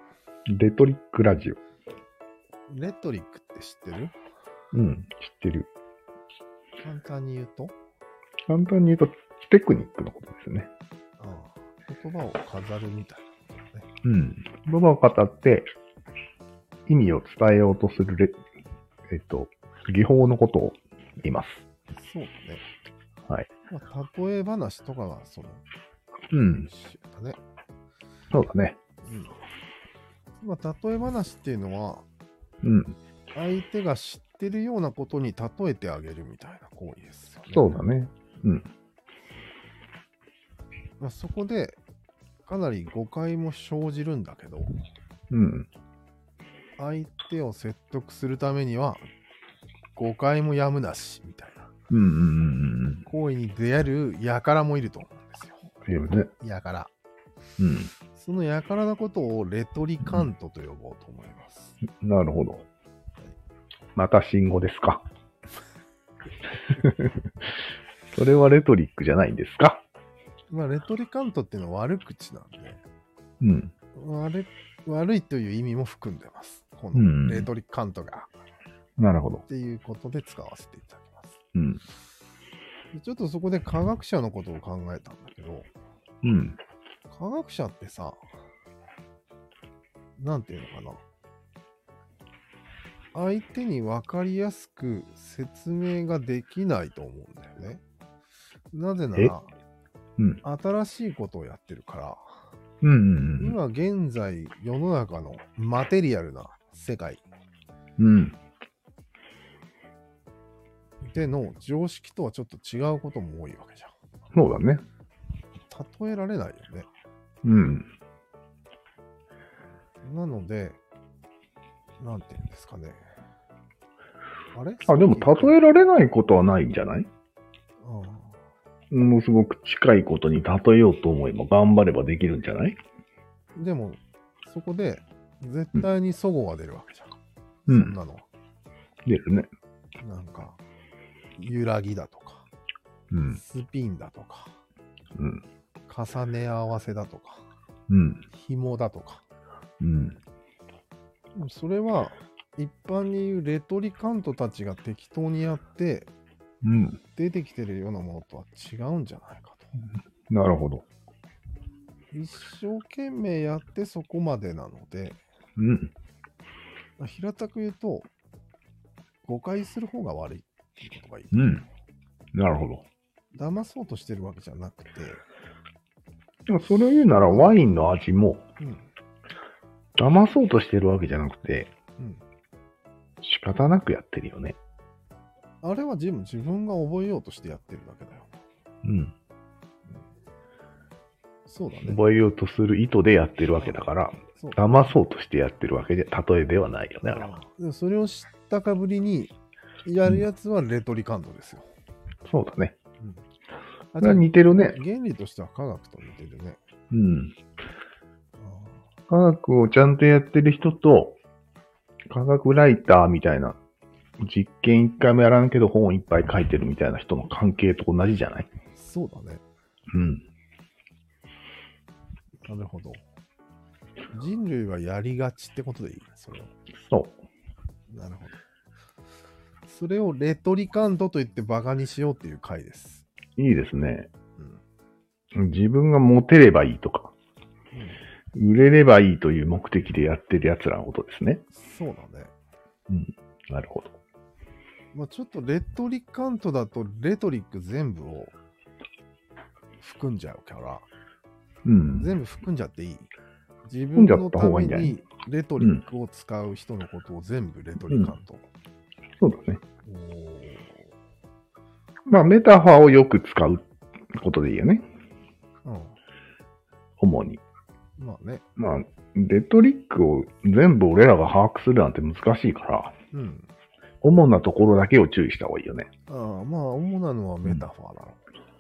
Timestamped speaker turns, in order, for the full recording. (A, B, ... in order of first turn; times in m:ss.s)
0:00.5-0:01.6 A
0:02.7-0:04.2 B
0:04.7-0:05.7 A
0:06.8-0:07.8 B
0:08.5-0:10.7 A
0:11.2-0:13.9 B
0:14.0-0:15.7 A
0:16.9-0:18.4 A
0:19.1-0:21.6 A
0:21.9-0:22.6 B
0:23.7-0:25.6 B
0:26.3-0:26.7 A
0:26.5-0:27.4 B
0:28.3-0:28.8 A
0:29.0-0:29.4 B
0:30.4-0:32.1 B
0:32.6-0:33.0 A
0:33.3-0:37.8 B
0:37.5-0:38.7 A
0:41.0-0:41.8 B
0:42.5-0:44.7 B
0:45.3-0:45.7 A
0:46.8-0:49.0 B
0:50.0-0:51.7 B
0:51.9-0:53.0 A
0:53.0-0:55.8 B
0:55.9-0:56.3 A
0:56.4-0:56.9 B
0:57.6-0:57.9 A
0:58.1-1:01.8 B
1:01.8-1:02.6 A
1:04.0-1:05.0 A
1:06.7-1:07.3 A
1:08.1-1:09.8 A
1:10.5-1:12.8 B
1:13.4-1:13.7 A
1:13.9-1:18.3 B
1:16.9-1:17.5 A
1:19.0-1:19.4 A
1:19.5-1:21.4 B
1:21.6-1:21.8 A
1:22.9-1:25.7 B
1:26.2-1:26.6 A
1:27.1-1:28.2 B
1:30.2-1:31.0 B
1:33.1-1:37.8 B
1:38.7-1:39.5 B
1:40.4-1:42.4 B
1:42.8-1:43.6 A
1:43.4-1:47.2 B
1:48.0-1:48.4 A
1:51.0-1:53.9 B
1:54.3-1:54.8 A
1:55.7-1:56.9 B
1:57.4-1:57.9 A
2:00.0-2:00.8 B
2:02.0-2:03.0 B
2:04.5-2:05.6 B
2:04.9-2:07.1 A
2:07.8-2:08.4 B
2:08.9-2:12.8 A
2:13.6-2:17.1 B
2:17.7-2:18.0 A
2:17.7-2:18.3 B
2:19.1-2:19.5 A
2:20.0-2:20.6 B
2:21.4-2:22.5 B
2:23.1-2:23.4 A
2:23.3-2:24.6 B
2:25.2-2:25.4 A
2:25.9-2:27.5 B
2:27.9-2:28.2 A
2:28.3-2:29.2 B
2:29.8-2:30.2 A
2:31.4-2:36.1 B
2:36.6-2:37.0 A
2:37.2-2:39.8 B
2:40.3-2:40.9 A
2:42.1-2:45.2 B
2:45.6-2:45.9 A
2:47.0-2:48.1 B
2:49.2-2:51.6 B
2:51.3-2:51.6 A
2:52.4-2:52.9 A
2:53.3-2:55.2 B
2:56.5-2:58.4 A
2:57.2-2:57.6 B
2:58.6-2:58.9 B
3:00.0-3:01.7 A
3:02.0-3:02.2 B
3:03.2-3:04.6 A
3:05.6-3:08.4 B
3:08.8-3:09.1 A
3:11.5-3:12.0 B
3:11.8-3:17.3 A
3:13.6-3:14.9 B
3:17.0-3:21.7 B
3:22.3-3:22.8 A
3:24.0-3:26.6 B
3:24.0-3:24.8 A
3:26.9-3:27.4 A
3:28.4-3:28.8 B
3:29.1-3:31.2 A
3:32.1-3:33.6 A
3:34.2-3:38.5 A
3:38.8-3:39.4 B
3:39.9-3:40.2 A
3:42.5-3:43.0 B
3:44.1-3:46.5 B
3:46.8-3:47.2 A
3:47.9-3:48.4 B
3:49.7-3:53.1 B
3:53.4-3:54.1 A
3:54.4-3:54.6 B
3:55.4-3:57.1 A
3:57.7-3:58.0 B
3:58.4-4:01.4 A
4:01.5-4:02.3 B
4:02.9-4:04.0 A
4:04.9-4:08.4 B
4:09.8-4:10.9 B
4:11.6-4:12.1 A
4:12.0-4:13.1 B
4:13.6-4:18.4 B
4:14.0-4:15.0 A
4:15.6-4:15.8 A
4:19.2-4:19.6 A
4:19.8-4:20.9 B
4:22.1-4:24.9 A
4:25.6-4:26.0 B
4:27.0-4:27.4 A
4:28.0-4:28.4 B
4:28.6-4:32.9 A
4:33.1-4:33.5 B
4:34.0-4:35.9 A
4:36.1-4:38.2 B